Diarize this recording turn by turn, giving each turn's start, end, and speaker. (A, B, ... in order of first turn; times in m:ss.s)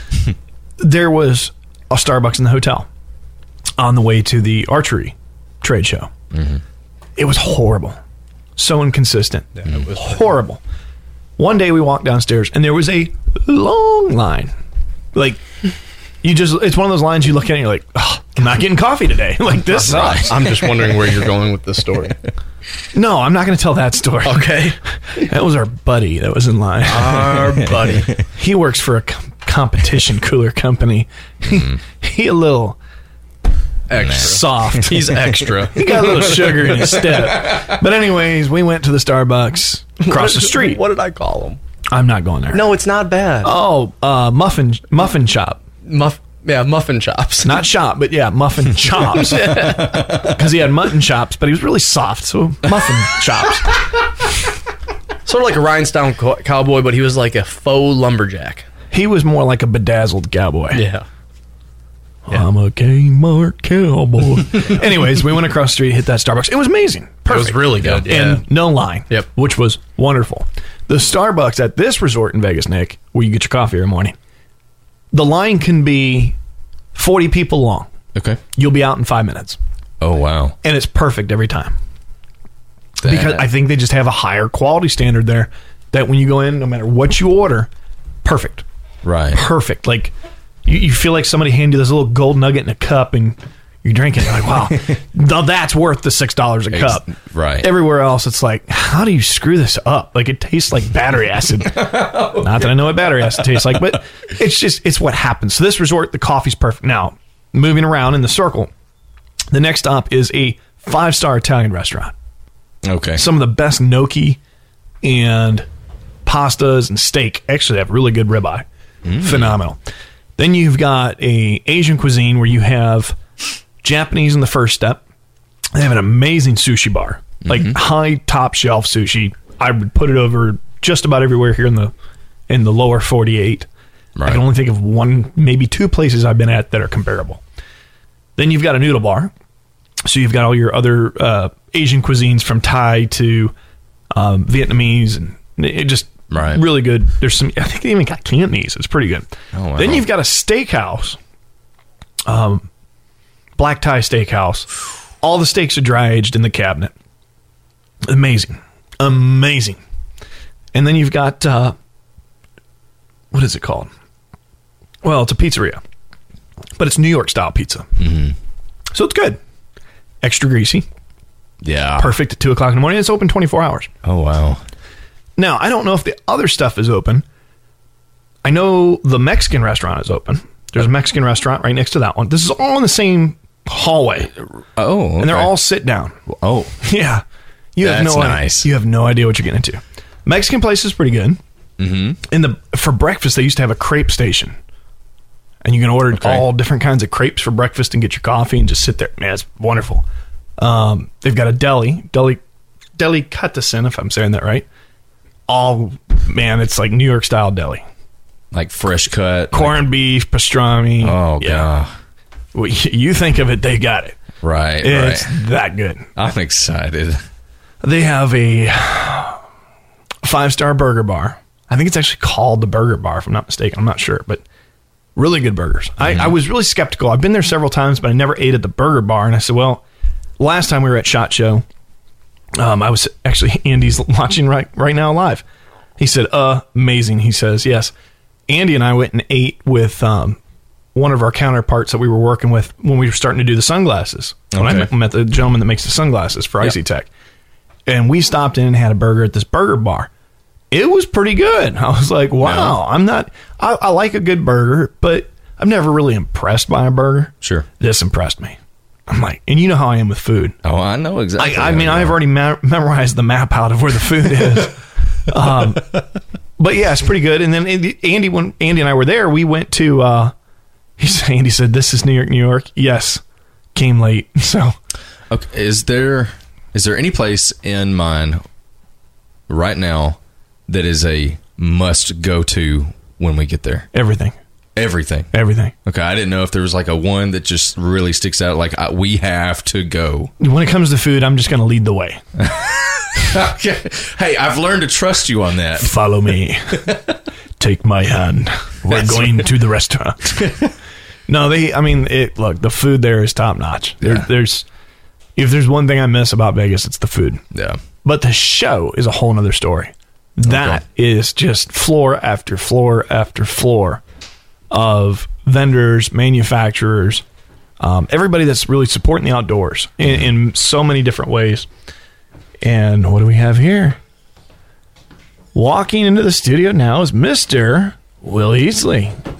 0:00.8-0:02.9 A
0:03.8-0:06.1 A
0:06.3-0:06.6 B
0:07.2-0:08.0 A
0:08.6-0:10.6 A
0:09.6-0:10.1 C
0:09.6-0:09.9 B
0:11.4-0:14.5 A
0:15.1-0:15.4 A
0:16.2-0:20.4 A
0:19.6-0:22.2 C
0:22.9-0:27.3 A
0:24.2-0:24.8 C
0:26.8-0:28.2 C
0:27.7-0:28.2 B
0:28.3-0:32.8 A
0:31.5-0:31.8 B
0:33.9-0:36.9 C
0:33.9-0:34.8 B
0:34.1-0:35.1 A
0:35.7-0:40.8 A
0:40.0-0:41.6 C
0:41.9-0:42.7 A
0:42.5-0:43.5 C
0:43.4-0:45.6 A
0:45.8-0:47.6 C
0:47.4-0:53.7 A
0:55.2-0:58.6 C
0:58.9-1:00.8 A
1:00.7-1:01.0 C
1:02.3-1:14.2 A
1:07.3-1:08.4 C
1:07.8-1:08.1 B
1:15.1-1:16.3 A
1:16.9-1:17.9 A
1:18.1-1:18.4 B
1:18.5-1:19.6 A
1:20.0-1:20.5 B
1:20.6-1:21.7 A
1:23.0-1:27.7 A
1:23.0-1:23.5 B
1:28.2-1:28.6 A
1:29.0-1:29.4 B
1:29.3-1:30.1 A
1:30.6-1:48.7 A
1:36.7-1:37.7 B
1:41.8-1:42.6 B
1:49.5-1:52.1 A
1:52.8-1:53.2 B
1:53.2-1:54.4 A
1:55.0-1:55.6 A
1:56.2-1:58.6 A
1:59.0-1:59.6 B
1:59.2-1:59.8 A
2:00.4-2:03.2 A
2:03.8-2:05.0 A
2:05.7-2:11.9 A
2:07.4-2:07.8 B
2:12.5-2:13.7 A
2:14.2-2:14.4 B
2:14.2-2:17.4 A
2:18.4-2:19.3 A
2:20.0-2:23.5 A
2:24.1-2:31.2 A
2:26.3-2:26.6 B
2:29.5-2:30.1 B
2:32.2-2:32.7 A
2:33.6-2:34.7 A
2:35.2-2:36.9 A
2:38.0-2:39.8 A
2:40.7-2:41.8 A
2:43.3-2:43.9 A
2:45.0-2:45.8 A
2:46.8-2:47.9 A
2:48.0-2:48.3 B
2:48.9-2:49.4 A
2:50.2-2:50.8 A
2:51.6-2:52.1 B
2:52.0-2:53.9 A
2:54.0-2:54.6 B
2:55.4-2:57.2 A
2:58.4-3:04.3 A
3:04.7-3:05.5 B
3:05.2-3:06.2 A
3:06.3-3:06.8 B
3:06.8-3:07.2 A
3:07.7-3:11.4 A
3:07.8-3:08.7 B
3:11.8-3:12.2 B
3:12.3-3:14.6 A
3:15.6-3:20.0 A
3:16.1-3:16.5 B
3:20.6-3:22.4 A
3:23.0-3:24.6 A
3:25.5-3:27.8 A
3:28.5-3:29.9 B
3:29.5-3:31.7 A
3:31.0-3:31.9 B
3:32.5-3:34.2 A
3:34.4-3:35.4 B
3:34.8-3:36.1 A
3:36.2-3:37.2 B
3:37.8-3:39.4 A
3:40.2-3:44.4 A
3:45.2-3:49.8 A
3:46.0-3:46.3 B
3:50.4-3:51.6 A
3:52.6-3:55.4 A
3:56.0-3:57.9 A
3:58.5-4:00.4 A
4:00.9-4:07.1 A
4:04.5-4:04.9 B
4:07.8-4:10.1 A
4:10.7-4:18.6 A
4:12.4-4:12.8 B
4:19.1-4:20.6 A
4:20.6-4:22.2 B
4:21.4-4:26.0 A
4:26.6-4:30.3 A
4:31.0-4:33.2 A
4:33.7-4:34.7 A
4:35.3-4:38.4 B
4:39.5-4:43.9 B
4:43.9-4:44.3 A
4:44.8-4:45.3 B
4:45.3-4:45.7 A
4:45.8-4:50.3 B
4:50.4-4:52.2 A
4:52.4-4:56.1 B
4:55.8-4:56.9 A
4:57.6-5:00.5 A
4:58.9-4:59.4 B
5:01.3-5:04.6 A
5:04.0-5:04.3 B
5:05.4-5:07.4 A
5:07.5-5:07.8 B
5:08.0-5:14.0 A
5:10.4-5:10.8 B
5:14.7-5:17.2 A
5:17.8-5:21.7 A
5:22.6-5:24.0 A
5:25.5-5:29.2 A